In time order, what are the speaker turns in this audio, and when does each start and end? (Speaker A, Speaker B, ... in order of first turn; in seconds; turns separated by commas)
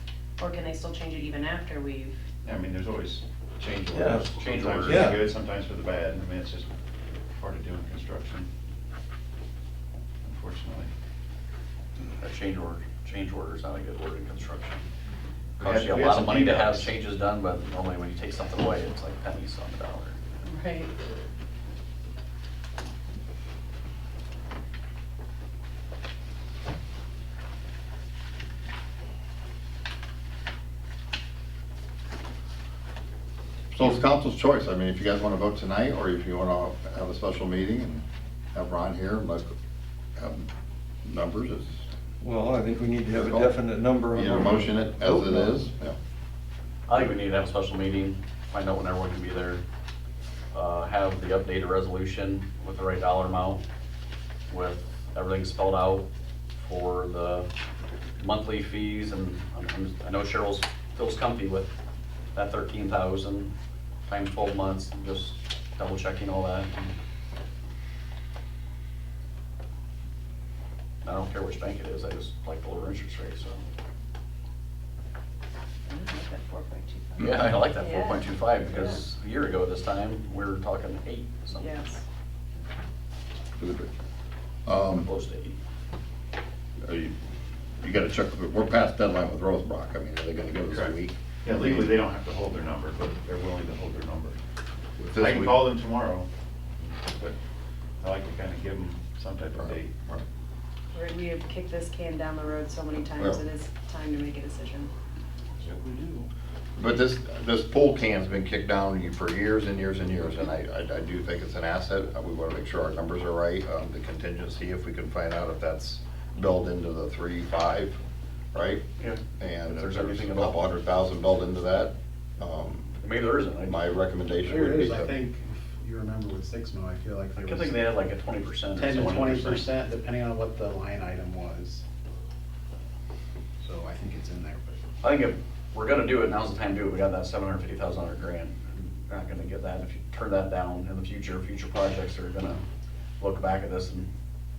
Speaker A: 0.4-2.2, Speaker B: 2.4-6.7, Speaker C: 3.9-4.3, Speaker D: 4.3-5.2, Speaker C: 4.8-5.3, Speaker B: 7.4-8.5, Speaker B: 10.2-10.9, Speaker D: 12.2-14.9, Speaker D: 15.6-20.2, Speaker B: 15.6-16.9, Speaker A: 20.4-21.0, Speaker E: 33.7-39.5, Speaker E: 40.2-40.5, Speaker E: 41.0-41.7, Speaker C: 42.2-45.7, Speaker E: 43.1-43.6, Speaker E: 44.1-46.0, Speaker D: 46.9-49.6, Speaker D: 50.5-53.6, Speaker D: 54.5-57.5, Speaker D: 58.2-61.7, Speaker D: 62.4-63.5, Speaker D: 64.1-66.9, Speaker D: 71.0-73.6, Speaker A: 75.9-79.0, Speaker D: 77.2-81.7, Speaker A: 81.6-82.0, Speaker E: 83.6-83.9, Speaker E: 84.7-85.1, Speaker D: 85.0-85.6, Speaker E: 86.8-87.1, Speaker E: 87.8-92.0, Speaker B: 90.7-94.4, Speaker E: 95.0-95.7, Speaker B: 95.2-96.3, Speaker B: 97.0-97.4, Speaker B: 98.0-100.1, Speaker E: 99.6-100.2, Speaker A: 100.9-104.9, Speaker E: 106.8-118.0, Speaker E: 118.5-118.8, Speaker D: 119.0-120.7, Speaker E: 119.4-123.0, Speaker D: 123.0-124.0, Speaker E: 123.7-125.1, Speaker F: 124.4-127.8, Speaker D: 127.5-129.7, Speaker F: 128.8-131.8, Speaker F: 133.6-134.8, Speaker D: 135.0-142.6, Speaker D: 143.2-144.1